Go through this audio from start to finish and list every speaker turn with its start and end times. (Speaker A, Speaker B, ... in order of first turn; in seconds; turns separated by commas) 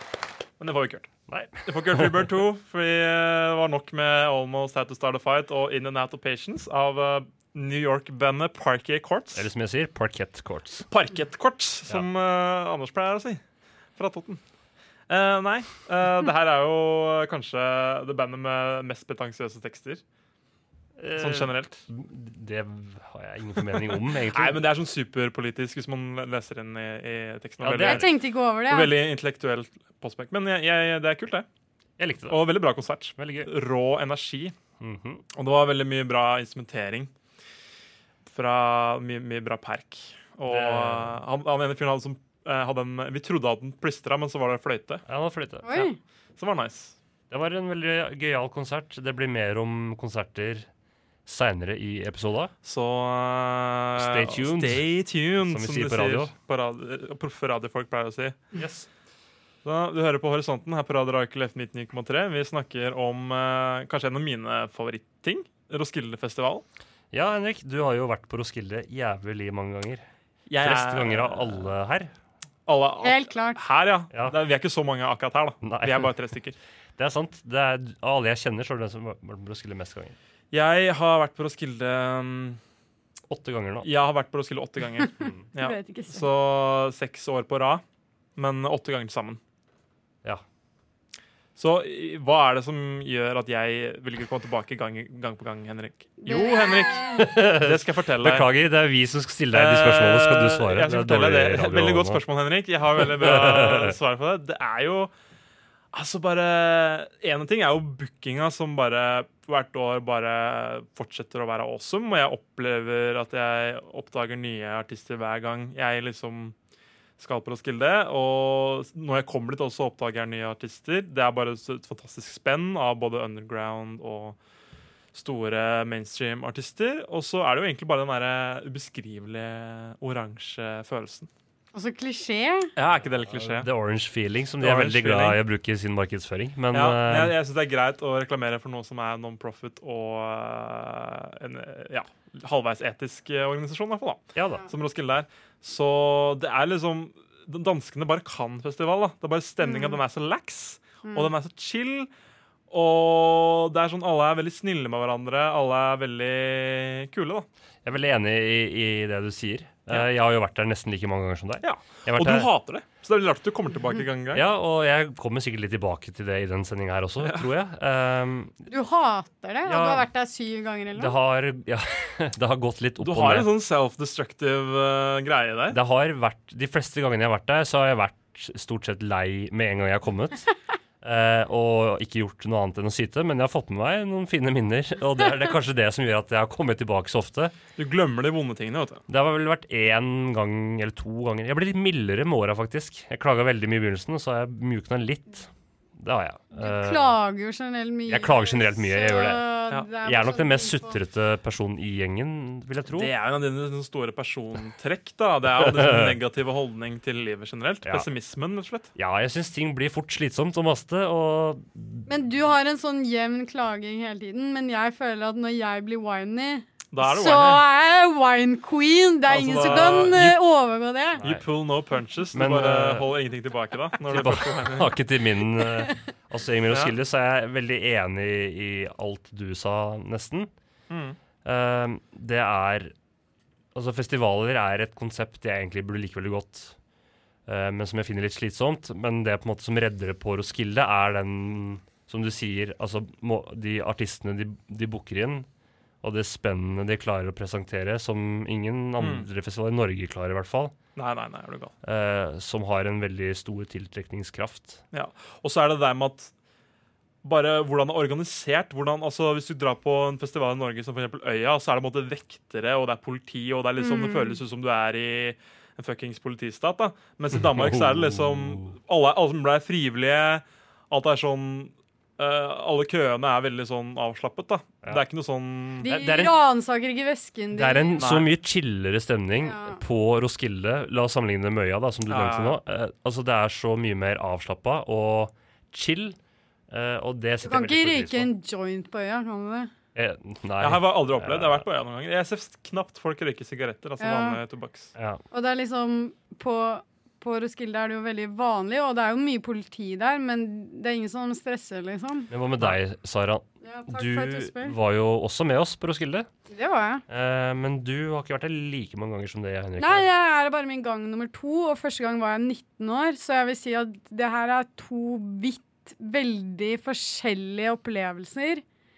Speaker A: 0.6-1.1, Speaker B: 1.3-2.3, Speaker A: 1.6-9.5, Speaker B: 9.3-10.9, Speaker A: 10.9-13.4, Speaker A: 14.0-14.4, Speaker A: 15.1-20.0, Speaker B: 21.0-24.6, Speaker A: 21.2-21.8, Speaker A: 24.3-31.4, Speaker B: 27.6-28.1, Speaker C: 27.8-28.9, Speaker B: 32.0-32.5, Speaker A: 32.3-34.5, Speaker B: 33.2-33.5, Speaker B: 34.8-35.2, Speaker A: 35.3-37.1, Speaker A: 38.2-45.0, Speaker B: 40.5-41.2, Speaker B: 45.0-45.9, Speaker C: 45.6-46.0, Speaker A: 46.4-47.0, Speaker B: 47.3-50.7, Speaker B: 51.2-52.5, Speaker A: 52.6-58.4, Speaker B: 54.0-54.9, Speaker B: 55.4-56.3, Speaker B: 58.5-58.9, Speaker A: 59.6-66.6, Speaker B: 67.1-70.0, Speaker A: 70.5-71.6, Speaker B: 70.6-72.1, Speaker A: 72.7-76.5, Speaker C: 73.0-73.6, Speaker B: 75.6-76.1, Speaker B: 77.0-80.2, Speaker A: 80.5-82.6, Speaker B: 83.3-83.9, Speaker A: 83.8-87.8, Speaker C: 85.6-86.3, Speaker A: 88.4-89.4, Speaker A: 91.6-98.5, Speaker C: 96.2-97.2, Speaker B: 97.2-102.2, Speaker A: 99.5-105.1, Speaker B: 102.9-104.0, Speaker A: 105.9-116.5, Speaker A: 117.2-124.4, Speaker A: 125.1-131.3, Speaker C: 131.7-132.7, Speaker A: 132.8-133.7, Speaker B: 133.3-137.3, Speaker A: 134.6-135.4, Speaker A: 136.7-152.1, Speaker B: 144.3-144.7, Speaker C: 149.6-150.0, Speaker C: 151.0-151.3, Speaker A: 152.7-157.4, Speaker B: 157.8-162.5, Speaker A: 161.6-164.4, Speaker B: 164.3-168.5, Speaker C: 168.7-171.2, Speaker B: 169.6-170.1, Speaker B: 170.9-173.5, Speaker A: 173.0-175.8, Speaker B: 175.7-180.5, Speaker B: 181.0-187.6, Speaker A: 187.8-189.0, Speaker B: 189.1-197.2, Speaker C: 196.5-201.0, Speaker B: 198.1-199.4, Speaker B: 200.0-203.1, Speaker A: 202.8-208.9, Speaker B: 205.6-206.2, Speaker B: 208.9-212.1, Speaker C: 212.1-221.2, Speaker A: 216.9-217.6, Speaker A: 219.3-220.3, Speaker B: 219.9-220.2, Speaker A: 221.2-224.9, Speaker B: 222.3-223.1, Speaker B: 224.1-230.5, Speaker A: 226.7-226.9, Speaker A: 230.9-231.2, Speaker B: 231.4-232.9, Speaker B: 233.7-236.8, Speaker B: 237.4-245.5, Speaker B: 246.0-250.7, Speaker A: 249.0-249.3, Speaker A: 250.9-251.7, Speaker B: 251.8-254.8, Speaker A: 254.9-256.3, Speaker A: 257.2-275.9, Speaker C: 263.8-264.4, Speaker B: 267.3-268.7, Speaker C: 275.8-278.0, Speaker B: 275.8-276.4, Speaker B: 277.5-286.2, Speaker A: 278.0-278.3, Speaker C: 279.4-279.8, Speaker A: 282.1-282.6, Speaker B: 286.7-288.3, Speaker C: 287.4-289.7, Speaker B: 289.9-291.7, Speaker A: 290.6-294.9, Speaker C: 294.0-294.4, Speaker B: 294.9-295.2, Speaker C: 295.3-302.3, Speaker B: 302.3-306.3, Speaker C: 303.6-304.8, Speaker C: 306.5-307.0, Speaker B: 307.1-310.1, Speaker C: 309.8-318.6